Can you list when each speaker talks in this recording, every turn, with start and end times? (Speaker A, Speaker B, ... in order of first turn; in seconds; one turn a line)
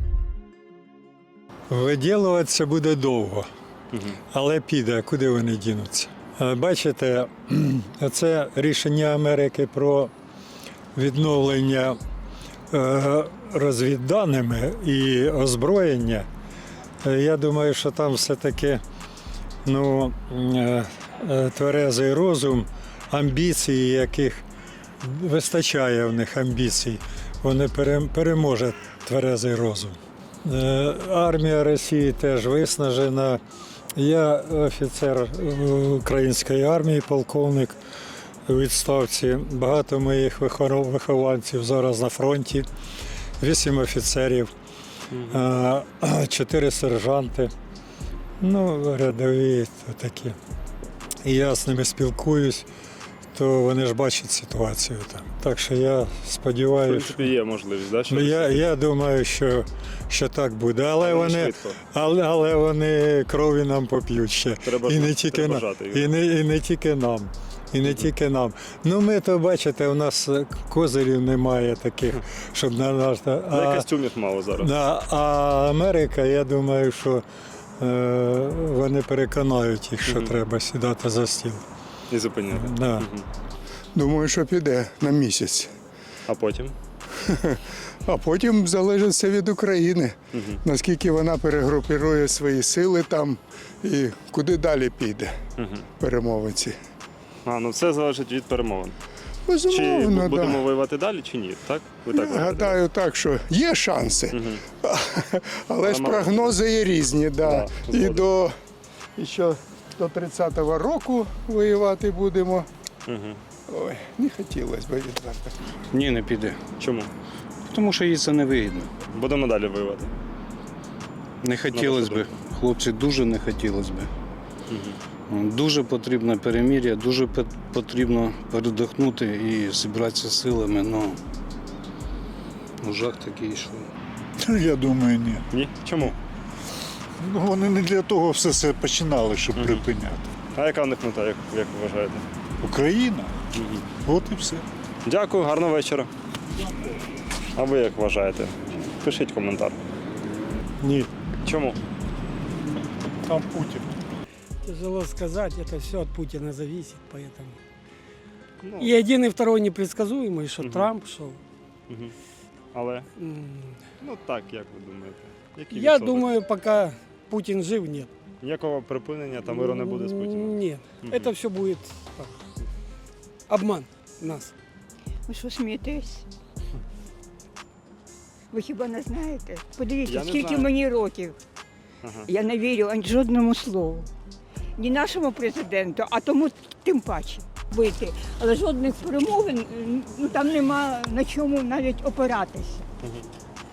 Speaker A: 1.7-3.5
Speaker B: 3.9-4.2
Speaker A: 4.3-10.1
Speaker A: 10.9-12.0
Speaker A: 12.7-16.3
Speaker A: 17.0-18.8
Speaker A: 19.6-24.4
Speaker A: 25.0-33.4
Speaker A: 33.9-37.8
Speaker A: 38.5-42.7
Speaker A: 43.4-44.5
Speaker B: 45.1-45.4
Speaker A: 45.3-47.5
Speaker A: 48.4-50.4
Speaker A: 51.2-52.7
Speaker A: 53.3-57.3
Speaker B: 56.8-58.7
Speaker A: 58.1-73.9
Speaker B: 61.0-61.8
Speaker B: 64.6-66.1
Speaker B: 67.8-68.1
Speaker B: 73.5-74.7
Speaker A: 74.6-77.2
Speaker A: 77.8-81.6
Speaker B: 80.0-80.3
Speaker B: 82.1-83.3
Speaker A: 82.5-83.1
Speaker C: 83.9-85.7
Speaker B: 86.3-86.7
Speaker C: 87.1-95.3
Speaker B: 90.3-90.6
Speaker B: 95.6-95.9
Speaker C: 96.0-96.8
Speaker B: 97.4-98.9
Speaker C: 99.5-100.6
Speaker B: 99.7-102.8
Speaker C: 102.1-108.5
Speaker B: 104.3-104.6
Speaker B: 105.8-106.6
Speaker B: 107.4-108.3
Speaker C: 109.2-112.7
Speaker B: 113.0-113.4
Speaker C: 113.7-115.5
Speaker D: 115.9-116.6
Speaker B: 116.8-117.1
Speaker D: 117.6-118.9
Speaker B: 119.1-120.1
Speaker D: 121.4-124.1
Speaker B: 121.7-122.3
Speaker B: 124.7-125.0
Speaker D: 125.3-131.2
Speaker D: 132.8-133.9
Speaker E: 134.4-135.4
Speaker B: 135.5-136.2
Speaker E: 137.2-140.3
Speaker B: 139.5-139.8
Speaker B: 140.5-142.2
Speaker E: 142.6-143.3
Speaker B: 143.5-143.9
Speaker E: 144.0-144.6
Speaker B: 145.0-146.1
Speaker B: 147.6-149.8
Speaker A: 150.8-151.1
Speaker B: 151.4-151.8
Speaker E: 153.2-154.0
Speaker F: 154.6-157.6
Speaker B: 158.6-159.0
Speaker F: 158.8-161.4
Speaker B: 160.6-160.9
Speaker B: 161.9-162.1
Speaker B: 162.7-163.1
Speaker F: 163.2-163.8
Speaker B: 164.0-166.3
Speaker F: 165.7-168.1
Speaker B: 168.4-171.3
Speaker F: 169.4-172.3
Speaker F: 173.5-174.5
Speaker G: 175.3-176.2
Speaker G: 178.5-181.3
Speaker B: 180.0-180.7
Speaker B: 182.0-182.3
Speaker G: 182.3-184.1
Speaker G: 184.8-192.8
Speaker B: 193.0-193.3